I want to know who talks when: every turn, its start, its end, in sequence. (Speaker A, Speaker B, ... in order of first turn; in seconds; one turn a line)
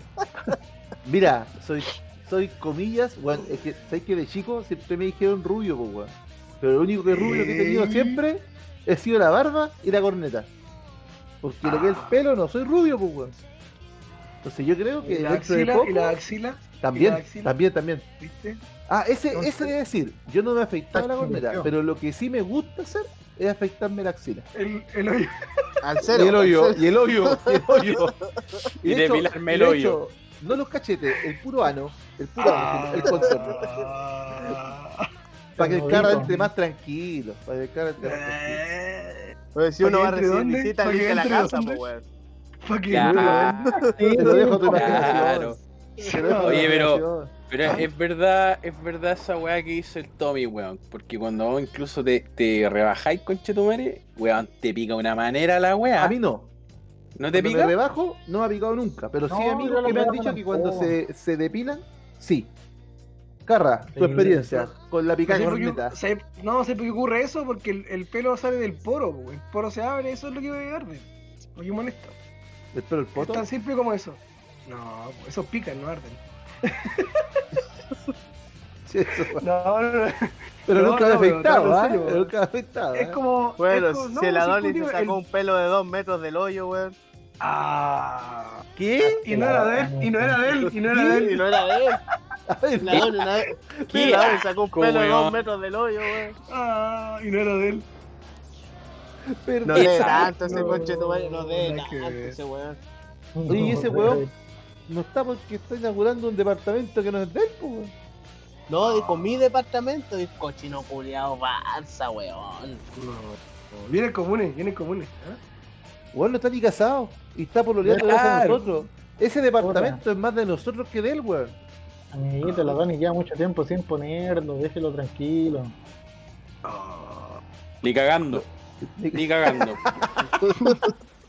Speaker A: 1.0-10.5
Speaker B: 7.1-8.2
Speaker A: 11.4-13.4
Speaker B: 11.6-12.2
Speaker A: 14.4-16.1
Speaker B: 15.0-17.6
Speaker A: 16.8-18.1
Speaker B: 18.2-18.6
Speaker A: 18.9-24.5
Speaker C: 19.4-19.6
Speaker C: 20.9-21.7
Speaker B: 24.6-25.7
Speaker D: 25.8-28.0
Speaker A: 26.1-28.2
Speaker A: 28.8-33.6
Speaker E: 28.9-30.0
Speaker B: 32.4-35.1
Speaker D: 32.5-33.5
Speaker C: 35.6-36.4
Speaker A: 35.6-38.6
Speaker B: 35.9-36.5
Speaker B: 38.0-41.8
Speaker D: 39.5-42.1
Speaker B: 42.6-43.6
Speaker E: 42.9-43.9
Speaker D: 43.2-43.9
Speaker C: 43.9-45.2
Speaker A: 44.1-47.3
Speaker E: 44.7-45.6
Speaker B: 46.0-46.7
Speaker E: 46.4-56.1
Speaker A: 56.0-56.5
Speaker E: 57.2-57.7
Speaker A: 57.3-62.5
Speaker C: 59.3-61.0
Speaker A: 63.5-66.0
Speaker C: 64.0-64.5
Speaker B: 64.0-64.7
Speaker B: 65.3-72.2
Speaker A: 72.7-73.5
Speaker B: 73.2-77.2
Speaker A: 78.9-79.4
Speaker B: 79.2-82.3
Speaker A: 80.7-83.2
Speaker B: 82.9-85.2
Speaker D: 83.6-87.0
Speaker B: 87.4-88.6
Speaker A: 88.8-89.6
Speaker B: 89.2-92.0
Speaker C: 89.3-90.4
Speaker A: 90.9-91.3
Speaker D: 91.2-92.0
Speaker A: 92.5-93.1
Speaker D: 92.8-96.3
Speaker A: 93.7-94.4
Speaker E: 93.9-95.4
Speaker B: 96.5-97.9
Speaker A: 99.3-100.4
Speaker D: 99.7-102.8
Speaker E: 99.7-100.4
Speaker B: 100.4-102.4
Speaker C: 103.4-104.3
Speaker A: 103.5-104.2
Speaker A: 104.9-107.9
Speaker D: 108.7-112.8
Speaker B: 108.8-109.4
Speaker B: 112.9-115.4
Speaker A: 116.1-121.6
Speaker C: 117.8-118.2
Speaker E: 118.0-118.6
Speaker C: 119.6-120.0
Speaker C: 122.1-125.7
Speaker B: 122.5-122.7
Speaker B: 126.6-127.4
Speaker E: 127.8-128.4
Speaker A: 128.3-130.5
Speaker E: 129.1-129.8